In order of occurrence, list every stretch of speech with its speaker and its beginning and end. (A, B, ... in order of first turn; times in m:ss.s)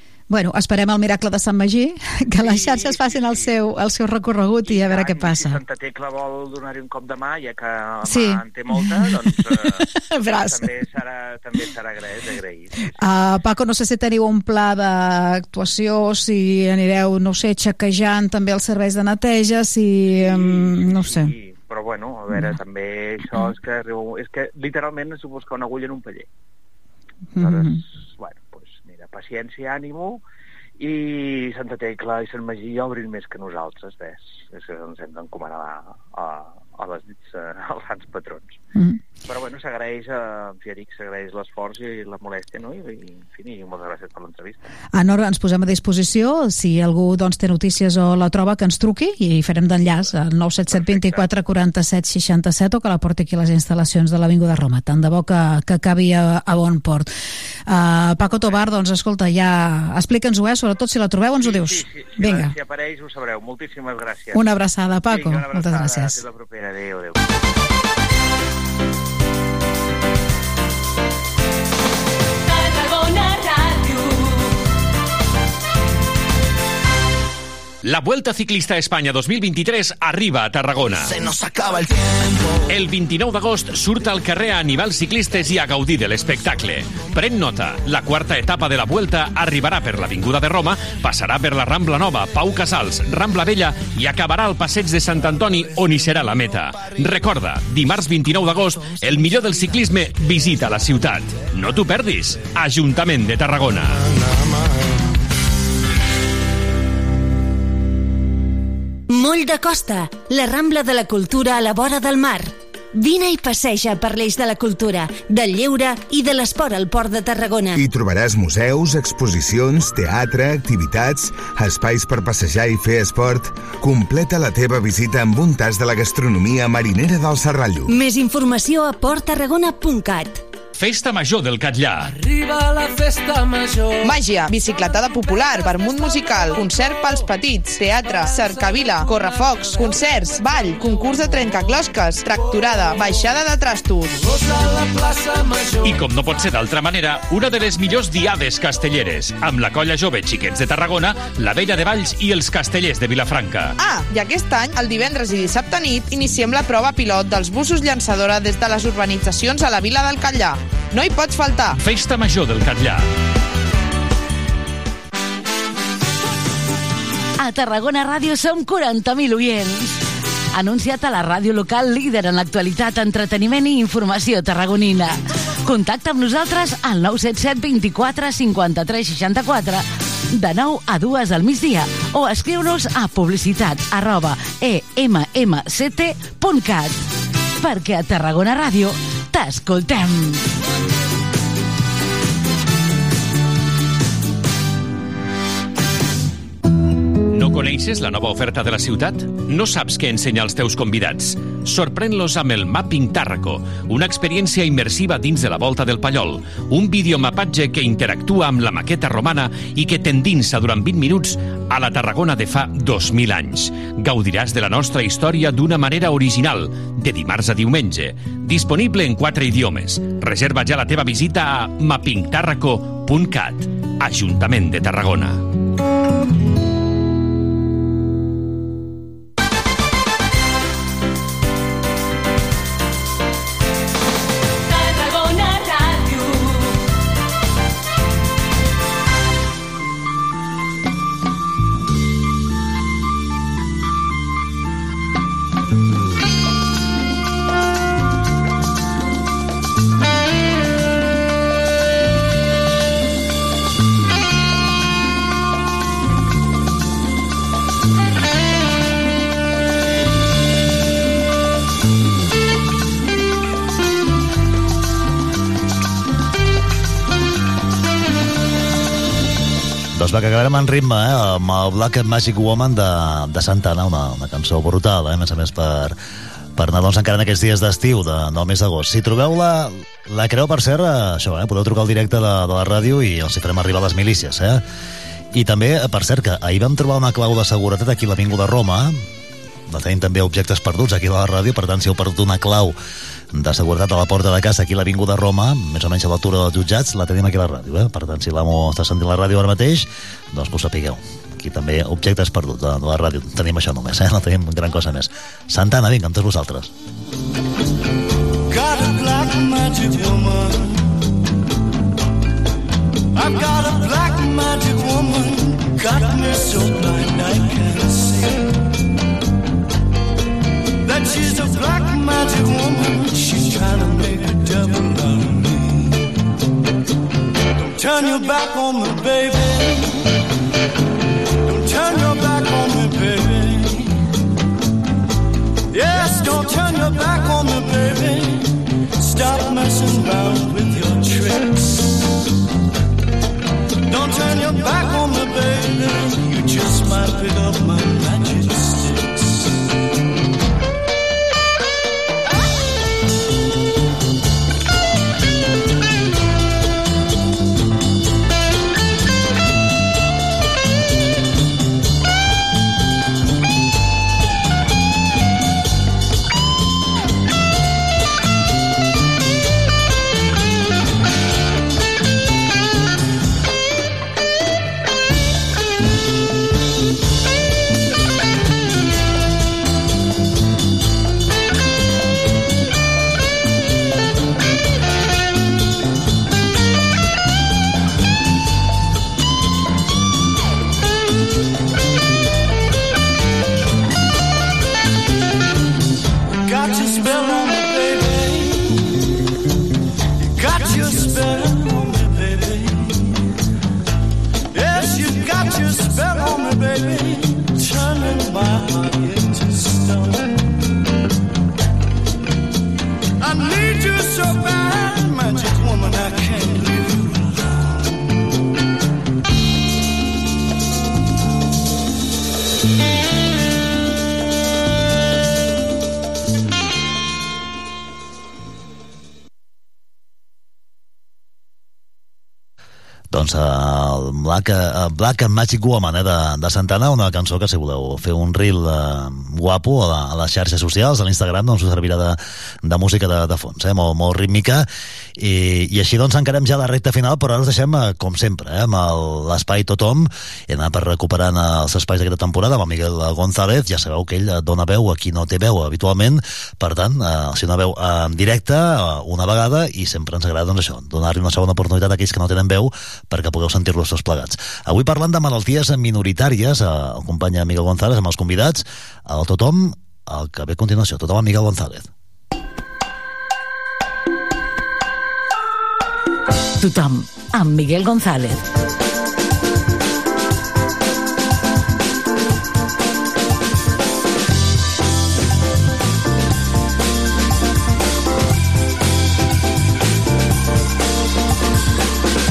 0:00.3-0:05.6 A
0:02.4-0:03.5 B
0:04.6-0:12.9 B
0:08.0-0:10.7 A
0:13.0-0:21.3 A
0:20.1-0:26.3 B
0:27.3-0:27.8 A
0:27.4-0:30.2 B
0:30.8-0:38.6 B
0:38.8-0:39.0 A
0:39.3-0:44.6 B
0:44.9-0:57.1 A
0:50.7-0:51.3 B
0:57.7-1:02.5 A
0:58.2-0:58.6 B
1:01.4-1:07.3 B
1:04.4-1:06.2 A
1:17.8-1:21.2 C
1:21.5-1:21.8 D
1:22.7-1:44.1 C
1:49.1-1:57.8 E
1:57.8-2:08.0 F
2:07.9-2:10.4 E
2:10.8-2:12.2 C
2:14.0-2:24.2 G
2:25.8-2:33.8 C
2:33.8-2:41.8 G
2:41.8-2:43.1 C
2:47.4-2:49.9 H
2:50.5-3:07.0 H
3:07.6-3:10.5 H
3:17.3-3:45.4 C
4:29.9-4:36.0 I
4:36.6-4:44.6 I
4:45.3-4:49.0 I
4:49.7-4:52.8 I
4:53.3-5:06.7 I
5:08.5-5:10.9 D
5:13.2-5:18.5 D
5:20.8-5:26.0 D
5:27.6-5:30.1 D
5:31.5-5:33.9 D
5:35.7-5:41.9 D
5:43.9-5:49.4 D
6:36.4-6:38.9 D
6:40.4-6:42.9 D
6:44.5-6:50.3 D
6:53.2-6:57.5 D
7:13.1-7:51.9 I
7:56.6-7:58.5 H